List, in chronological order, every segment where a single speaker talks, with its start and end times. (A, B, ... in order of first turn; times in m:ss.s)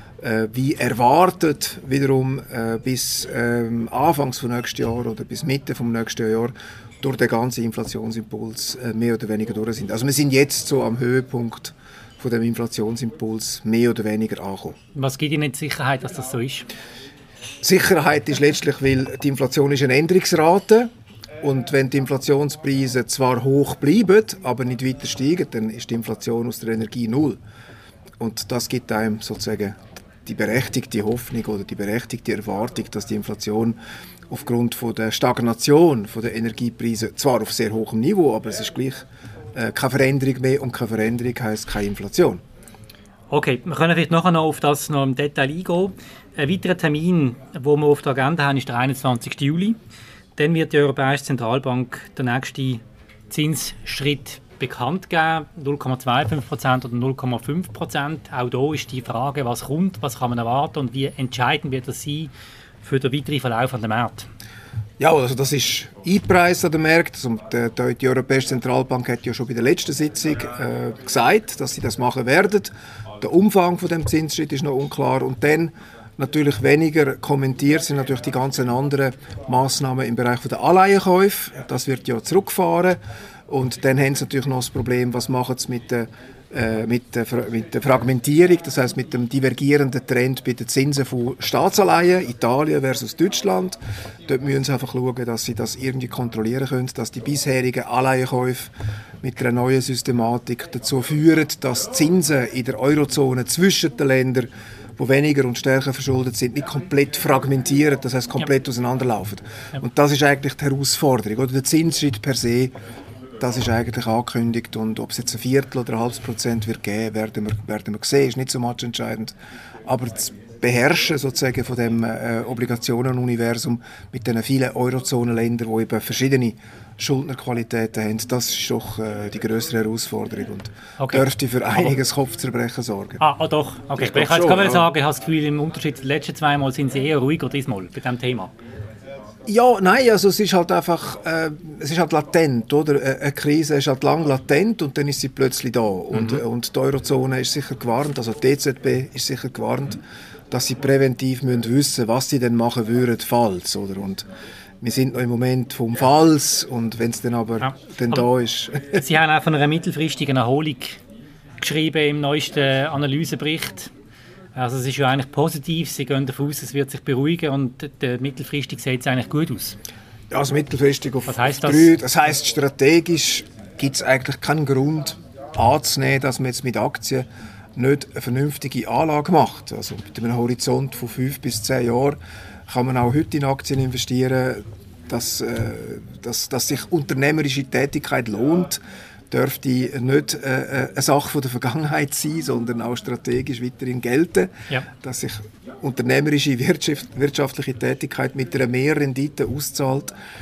0:00.2-0:14.8 A
0:14.9-0:16.7 B
0:17.6-0:20.9 A
0:21.4-0:27.4 A
0:28.2-0:33.8 A
0:34.3-0:42.4 A
0:43.3-0:49.8 B
0:50.4-1:02.3 B
1:02.8-1:04.3 B
1:05.0-1:38.7 A
1:39.2-1:52.7 A
1:53.4-1:59.3 A
1:59.8-2:13.2 A
2:11.0-2:11.9 B
2:13.2-2:18.5 B
2:14.0-2:14.8 A
2:19.5-2:34.2 A
2:34.8-2:39.0 A
2:37.6-2:38.2 B
2:38.9-2:41.0 B
2:41.6-2:43.9 B
2:44.5-2:49.8 B
2:50.3-3:08.8 A
2:51.3-2:51.9 B
3:09.3-3:20.1 A